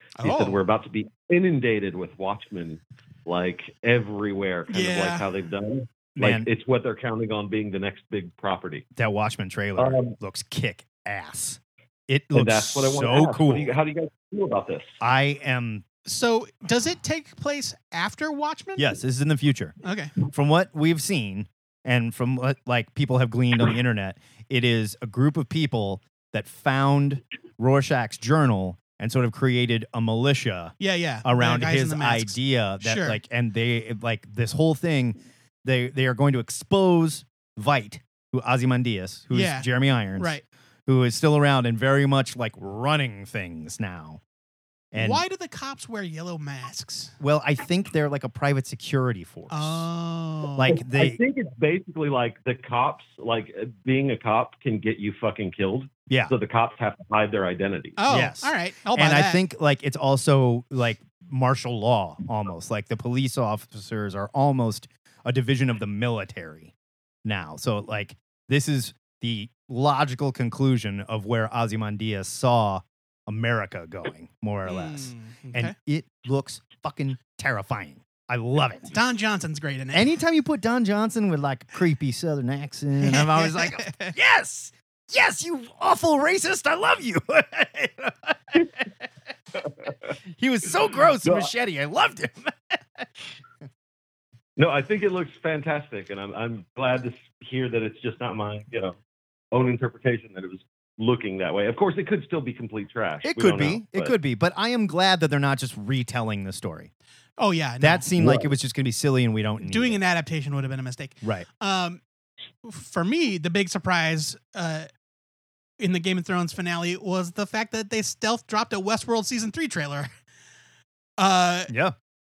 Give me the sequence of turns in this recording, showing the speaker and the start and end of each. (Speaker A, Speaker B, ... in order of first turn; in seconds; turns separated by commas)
Speaker A: 0.2-0.6, Speaker B: 0.2-8.9, Speaker A: 4.7-5.2, Speaker C: 6.2-6.5, Speaker C: 8.9-13.8, Speaker B: 9.8-10.2, Speaker B: 12.3-14.9, Speaker C: 15.0-15.8, Speaker A: 16.1-18.9, Speaker C: 18.8-40.3, Speaker A: 19.8-20.1, Speaker A: 30.8-33.2, Speaker A: 39.3-40.4, Speaker C: 40.9-44.2, Speaker C: 44.9-45.2, Speaker A: 45.0-47.1, Speaker C: 47.2-49.9, Speaker A: 49.5-50.8, Speaker C: 50.6-51.2, Speaker B: 50.7-58.0, Speaker A: 58.0-59.4, Speaker C: 58.1-66.7, Speaker C: 67.2-78.9, Speaker A: 74.7-75.7, Speaker A: 78.9-80.1, Speaker C: 79.9-88.9, Speaker A: 83.0-84.1, Speaker C: 90.4-93.1, Speaker B: 91.2-91.5, Speaker B: 94.6-99.0, Speaker B: 99.5-104.2, Speaker C: 103.2-106.9, Speaker A: 107.4-108.1, Speaker C: 107.8-110.0, Speaker B: 108.2-108.5, Speaker A: 109.6-112.0, Speaker A: 112.6-114.9, Speaker A: 115.8-120.1, Speaker A: 121.2-121.7, Speaker C: 121.7-121.9